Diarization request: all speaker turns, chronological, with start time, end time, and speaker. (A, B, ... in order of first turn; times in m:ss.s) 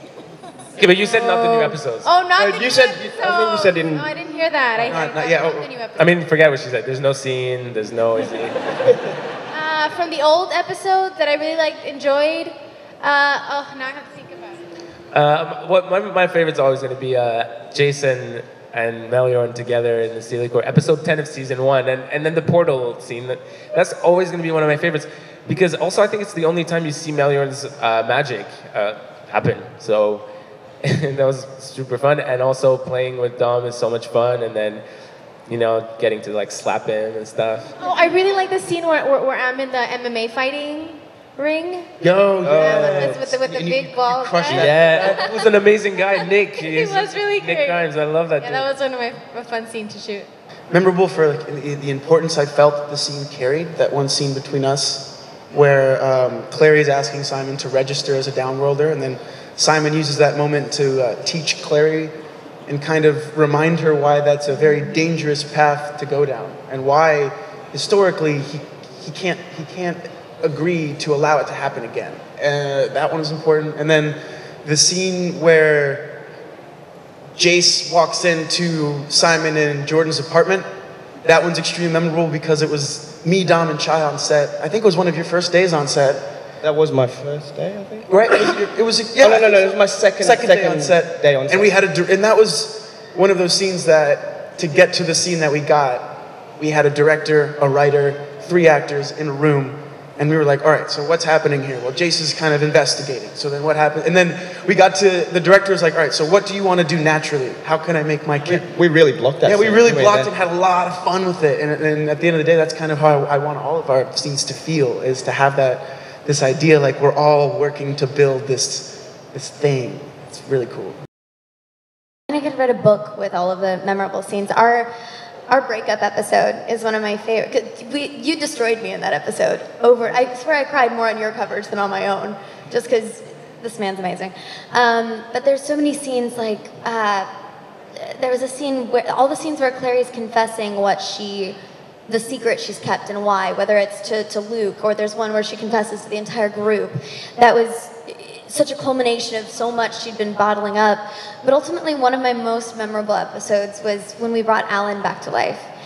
0:00.8-0:02.1 A
0:01.1-0:06.2 B
0:02.4-0:04.1 C
0:04.8-0:05.7 D
0:06.0-0:09.1 A
0:09.5-0:14.6 B
0:15.1-0:30.2 A
0:30.8-0:34.8 A
0:35.5-0:37.7 A
0:37.8-0:42.0 B
0:42.0-0:43.2 A
0:42.0-0:45.2 D
0:42.9-0:45.5 B
0:44.5-0:48.7 A
0:46.5-0:47.8 B
0:48.4-0:50.3 B
0:50.7-1:02.1 D
1:02.7-1:16.2 D
1:17.3-1:20.6 D
1:21.2-1:26.2 D
1:26.6-1:28.1 C
1:28.1-1:29.6 D
1:29.2-1:31.7 C
1:30.2-1:36.1 D
1:36.6-1:48.6 D
1:48.4-1:50.3 C
1:49.4-2:01.0 D
2:02.3-2:04.9 E
2:05.5-2:17.3 E
2:18.0-2:21.5 E
2:22.1-2:35.7 E